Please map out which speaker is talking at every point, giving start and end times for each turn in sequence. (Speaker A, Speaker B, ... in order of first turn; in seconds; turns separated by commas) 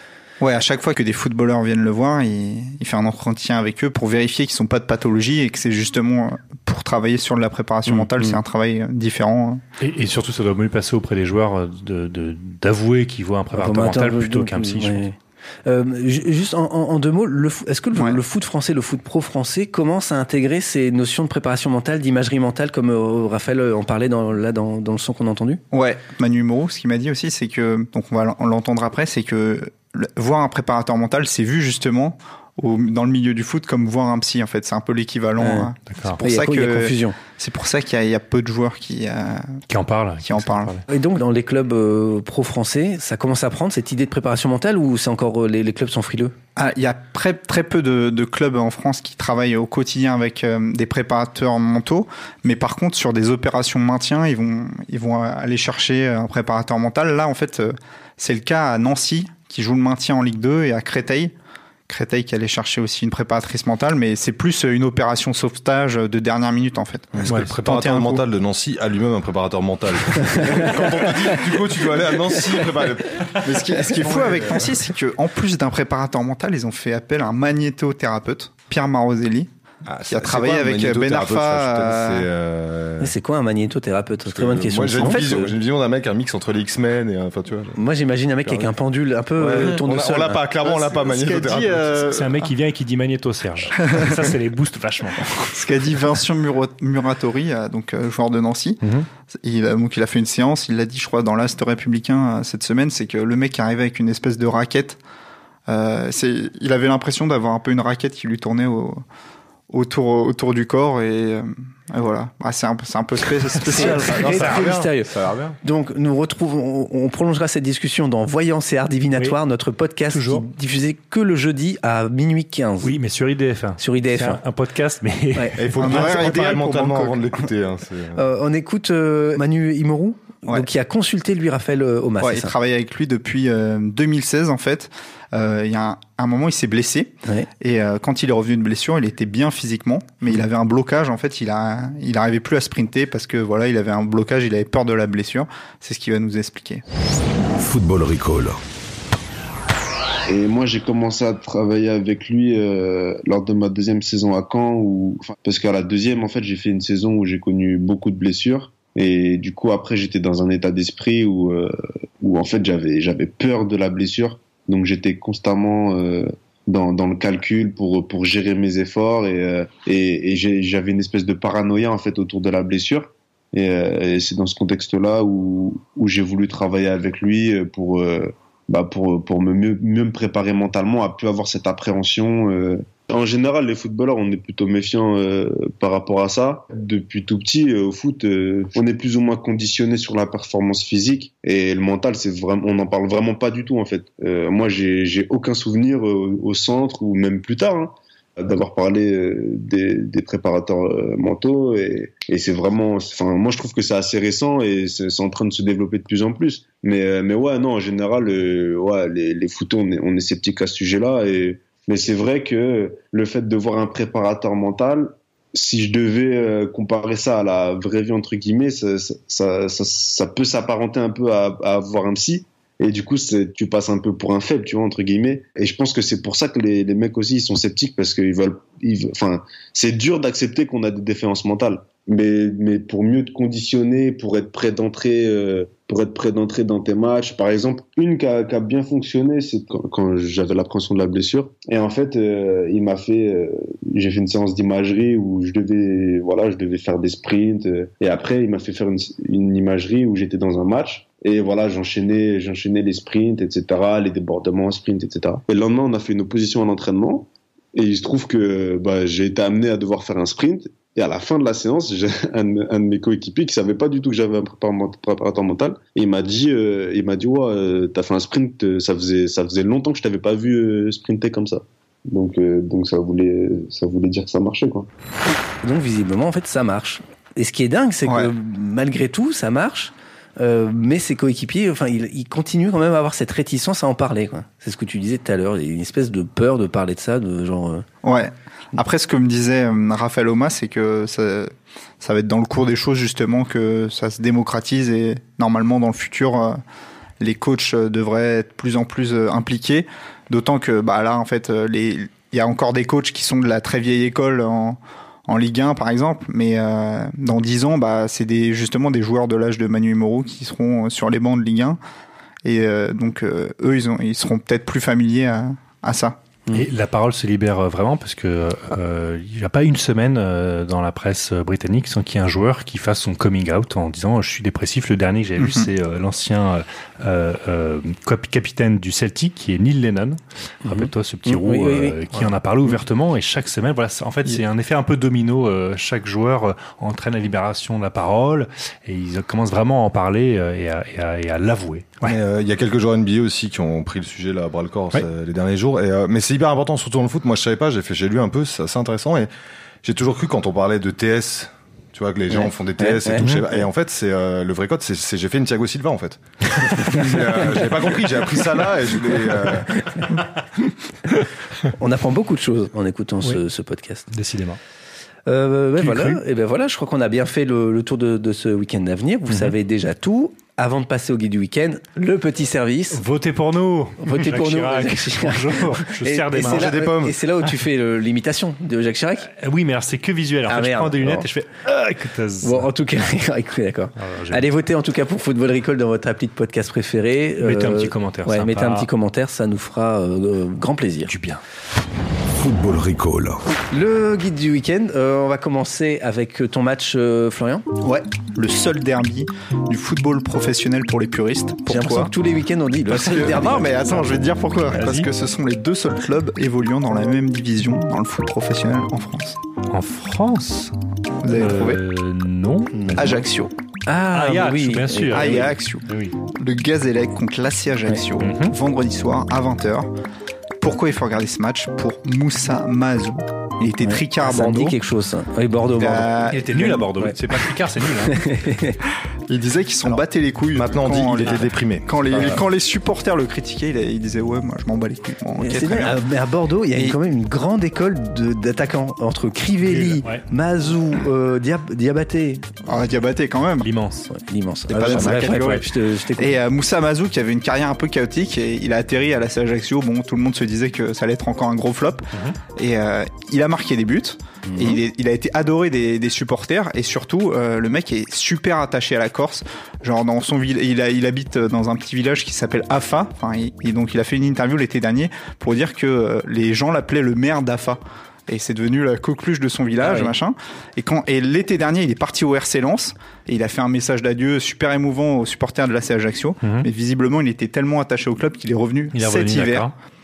Speaker A: 0.4-9.6, Speaker B: 8.0-8.4, Speaker C: 9.8-15.1, Speaker B: 13.6-25.6, Speaker A: 25.7-39.6, Speaker B: 35.4-35.7, Speaker C: 35.9-36.2, Speaker B: 36.2-37.2, Speaker C: 39.7-40.8, Speaker A: 40.2-40.8, Speaker B: 40.9-46.4, Speaker A: 46.6-61.3, Speaker A: 61.9-68.2, Speaker D: 67.2-74.7, Speaker C: 67.3-67.7, Speaker A: 73.5-79.5, Speaker D: 79.9-83.1, Speaker A: 80.1-82.3, Speaker B: 83.0-85.5, Speaker D: 84.3-87.8, Speaker B: 87.8-90.4, Speaker D: 88.5-88.7, Speaker D: 89.4-92.4, Speaker A: 90.7-91.8, Speaker C: 92.0-95.3, Speaker A: 95.5-105.0, Speaker A: 105.7-109.0, Speaker A: 109.7-114.5, Speaker C: 113.8-114.8, Speaker B: 113.8-115.1, Speaker D: 113.8-115.6, Speaker B: 115.6-122.9, Speaker C: 120.1-120.5, Speaker C: 122.8-125.9, Speaker B: 123.8-124.4, Speaker D: 125.6-128.2, Speaker A: 125.8-127.3, Speaker B: 128.2-132.5, Speaker A: 132.2-146.8, Speaker E: 147.6-148.6, Speaker F: 150.3-274.9, Speaker B: 275.6-287.9, Speaker A: 278.1-278.3, Speaker A: 288.0-296.6, Speaker A: 297.2-311.8, Speaker A: 312.4-316.2, Speaker C: 316.5-342.2, Speaker A: 325.4-325.7, Speaker B: 330.6-332.0, Speaker D: 342.0-349.3, Speaker D: 349.8-360.2, Speaker B: 352.3-353.6, Speaker B: 356.8-357.2, Speaker B: 359.8-360.1, Speaker B: 361.8-364.1, Speaker C: 364.1-364.6, Speaker B: 365.3-373.0, Speaker C: 365.8-366.2, Speaker C: 372.9-376.8, Speaker B: 374.0-379.3, Speaker D: 376.4-377.2, Speaker C: 379.3-382.7, Speaker B: 380.5-381.3, Speaker B: 382.4-391.1, Speaker C: 384.0-384.4, Speaker C: 387.4-388.9, Speaker C: 391.1-391.4, Speaker E: 392.3-393.4, Speaker B: 393.7-397.7, Speaker A: 397.8-402.1, Speaker B: 401.7-403.9, Speaker A: 402.9-409.4, Speaker C: 404.7-405.1, Speaker C: 409.7-413.2, Speaker A: 411.2-411.8, Speaker B: 412.8-413.1, Speaker A: 413.0-413.5, Speaker B: 413.9-415.4, Speaker C: 414.1-416.1, Speaker A: 415.1-419.9, Speaker C: 418.2-418.6, Speaker A: 420.6-424.8, Speaker B: 423.8-427.2, Speaker A: 425.8-426.8, Speaker C: 426.3-428.3, Speaker B: 428.1-428.8, Speaker A: 429.3-436.0, Speaker D: 430.5-432.4, Speaker B: 435.4-442.6, Speaker C: 439.6-440.2, Speaker A: 442.7-443.7, Speaker C: 443.6-444.1, Speaker B: 444.1-446.4, Speaker A: 444.7-479.7, Speaker B: 454.5-454.8, Speaker B: 469.9-470.1, Speaker C: 476.4-476.7, Speaker C: 478.9-479.7